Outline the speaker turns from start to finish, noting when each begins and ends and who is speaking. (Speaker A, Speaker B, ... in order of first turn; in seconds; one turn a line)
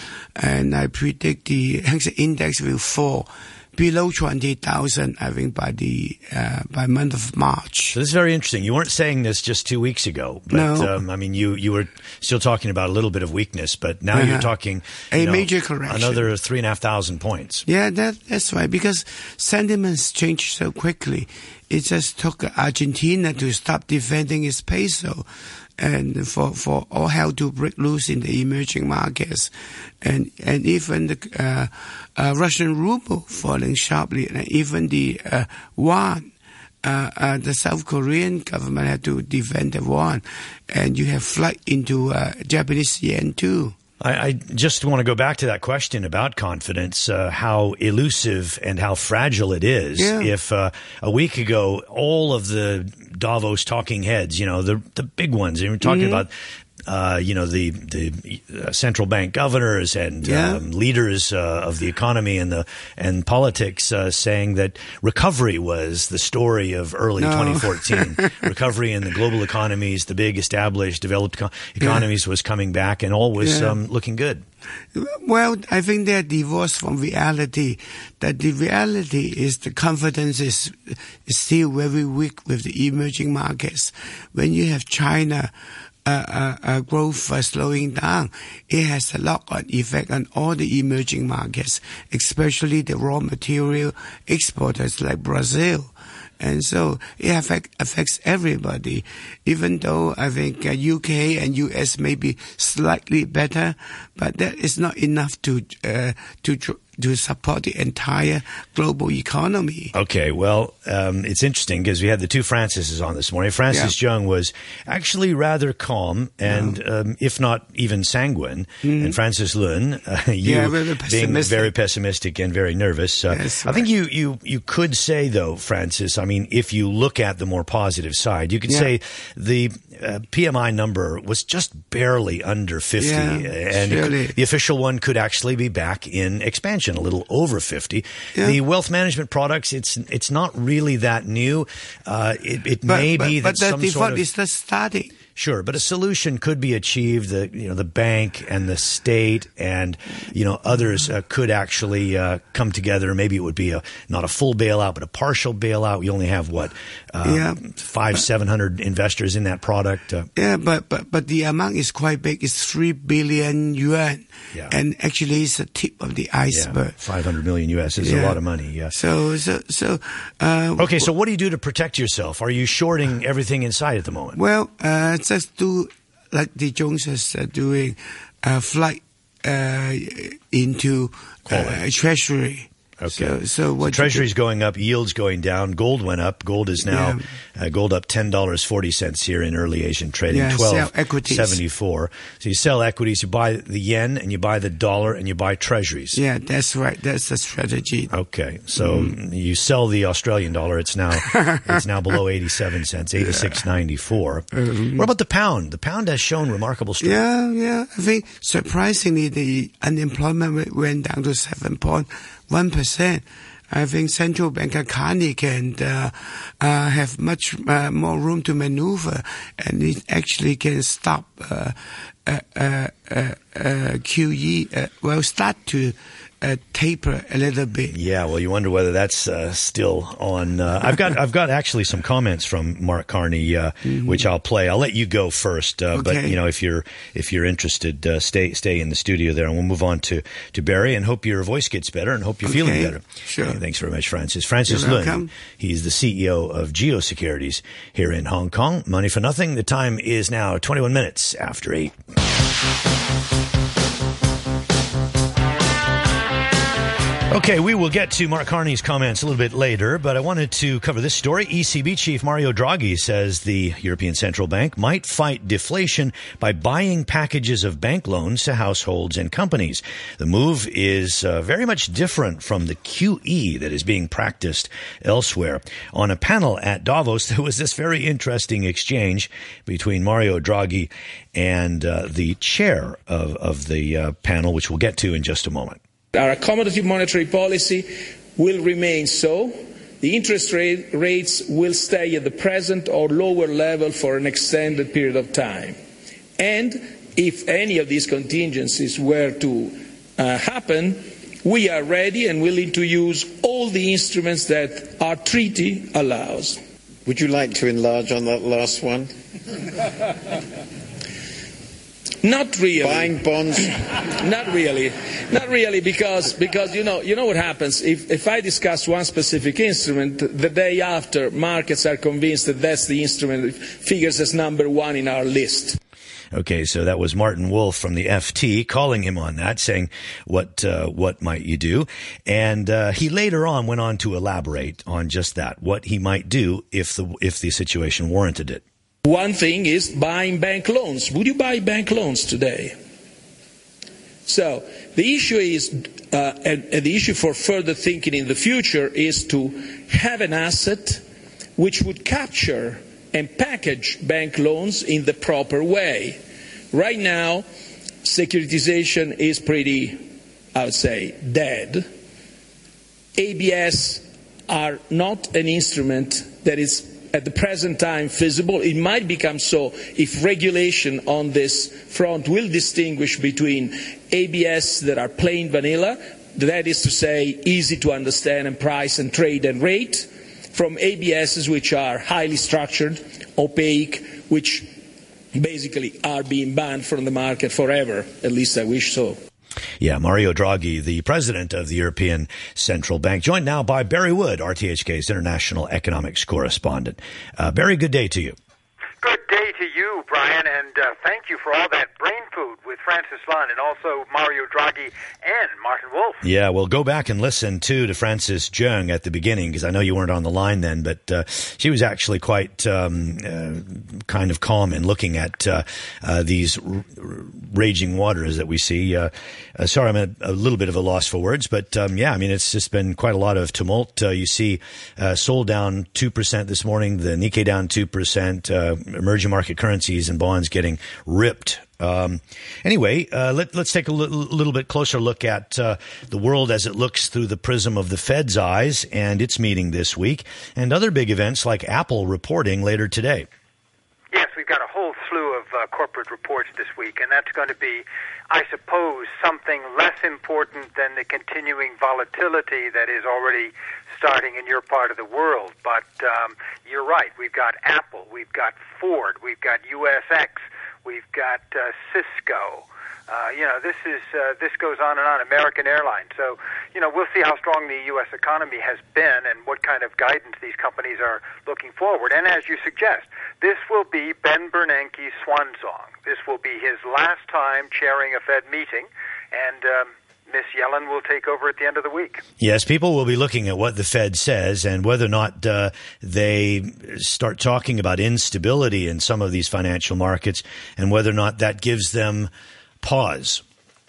Speaker A: 0.3-8.0
Speaker B: 7.9-17.6
Speaker A: 10.5-11.0
Speaker A: 14.1-14.5
Speaker A: 15.1-16.3
Speaker A: 17.6-25.2
Speaker A: 25.8-36.3
Speaker A: 36.8-43.8
Speaker B: 44.0-56.3
Speaker A: 50.0-50.3
Speaker A: 55.8-56.2
Speaker B: 56.9-74.4
Speaker A: 60.2-60.6
Speaker A: 67.2-68.3
Speaker A: 73.4-73.8
Speaker A: 74.9-85.5
Speaker A: 86.0-109.9
Speaker B: 109.9-144.2
Speaker A: 116.4-116.8
Speaker A: 118.8-119.2
Speaker A: 120.4-121.7
Speaker A: 123.3-123.9
Speaker A: 133.0-134.3
Speaker A: 142.8-145.2
Speaker B: 145.3-160.3
Speaker A: 157.2-157.6
Speaker A: 160.3-167.0
Speaker B: 166.5-169.0
Speaker A: 168.0-168.4
Speaker A: 168.9-171.1
Speaker B: 170.8-174.4
Speaker A: 174.3-184.3
Speaker B: 181.5-181.8
Speaker B: 183.0-196.2
Speaker A: 186.8-187.2
Speaker A: 190.3-191.6
Speaker A: 196.1-198.1
Speaker B: 198.1-207.2
Speaker A: 198.8-199.1
Speaker A: 201.3-201.8
Speaker A: 203.2-203.6
Speaker A: 204.5-205.1
Speaker A: 207.0-227.9
Speaker B: 227.9-251.9
Speaker A: 233.8-234.2
Speaker A: 235.9-236.3
Speaker A: 242.4-243.6
Speaker A: 244.7-245.3
Speaker B: 257.3-285.8
Speaker C: 286.1-295.8
Speaker C: 296.4-306.6
Speaker D: 307.1-309.1
Speaker C: 312.2-313.2
Speaker D: 312.8-313.8
Speaker C: 314.1-325.8
Speaker B: 326.3-338.6
Speaker C: 339.0-342.8
Speaker C: 344.2-351.0
Speaker C: 351.6-356.2
Speaker C: 356.7-357.4
Speaker C: 358.0-361.9
Speaker C: 363.1-384.7
Speaker C: 385.3-389.2
Speaker B: 389.8-398.4
Speaker E: 399.0-406.2
Speaker B: 406.2-443.3
Speaker E: 444.1-482.2
Speaker B: 482.4-492.3
Speaker B: 492.8-493.4